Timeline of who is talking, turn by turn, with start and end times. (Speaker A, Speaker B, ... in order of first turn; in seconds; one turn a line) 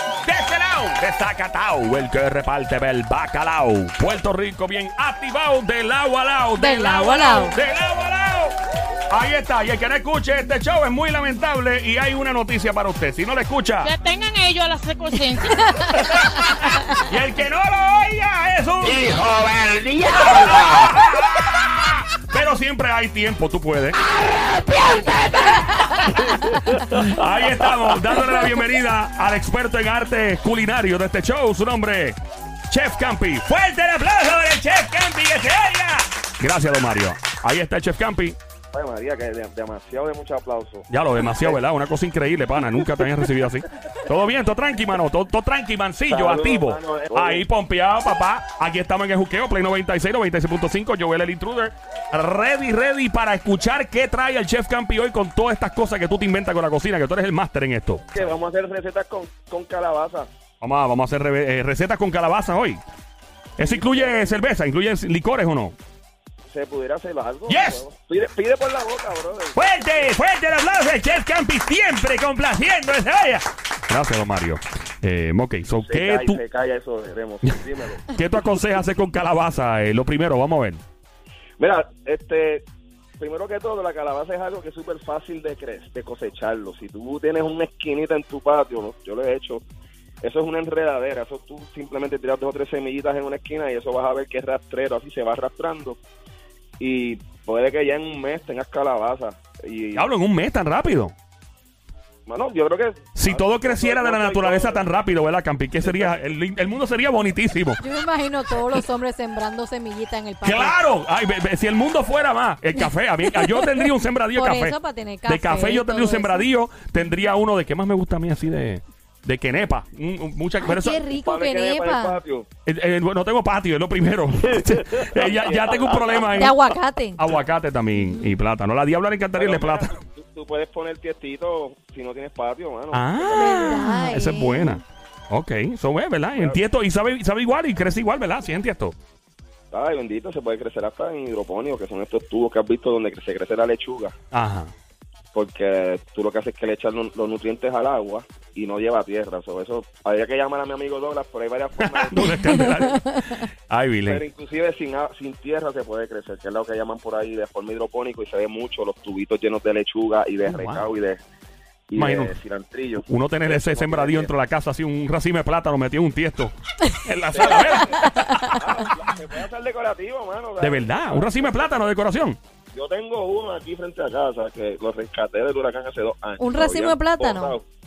Speaker A: 0.2-8.6
Speaker B: 6.6-7.5
Speaker A: 9.1-14.0
Speaker C: 13.9-15.9
Speaker A: 17.0-19.2
Speaker D: 18.9-20.9
Speaker A: 20.0-24.0
Speaker A: 26.8-32.2
Speaker A: 32.7-38.4
Speaker E: 38.7-41.6
Speaker A: 40.9-58.3
Speaker E: 46.1-47.5
Speaker E: 58.1-60.3
Speaker A: 60.6-62.8
Speaker A: 63.6-65.8
Speaker E: 63.6-64.5
Speaker E: 66.5-70.2
Speaker A: 67.5-67.8
Speaker A: 69.6-76.4
Speaker E: 75.8-78.1
Speaker A: 78.1-80.8
Speaker E: 81.6-82.6
Speaker E: 83.2-89.6
Speaker E: 90.2-96.0
Speaker E: 96.8-100.1
Speaker A: 100.0-101.1
Speaker E: 102.3-105.0
Speaker A: 103.2-107.8
Speaker E: 105.8-106.2
Speaker B: 107.8-110.8
Speaker A: 110.4-121.1
Speaker B: 114.4-116.5
Speaker B: 120.6-122.2
Speaker E: 121.2-122.5
Speaker A: 122.7-130.0
Speaker E: 125.1-126.5
Speaker B: 126.3-127.2
Speaker E: 129.3-133.8
Speaker A: 132.9-138.9
Speaker B: 133.3-134.7
Speaker E: 139.7-144.1
Speaker A: 144.3-144.7
Speaker E: 145.3-152.9
Speaker A: 151.9-154.2
Speaker E: 154.1-161.2
Speaker A: 160.4-160.9
Speaker E: 161.9-164.3
Speaker A: 162.0-162.3
Speaker A: 163.1-168.2
Speaker E: 167.3-171.9
Speaker A: 170.6-172.4
Speaker E: 172.7-177.7
Speaker B: 176.4-177.6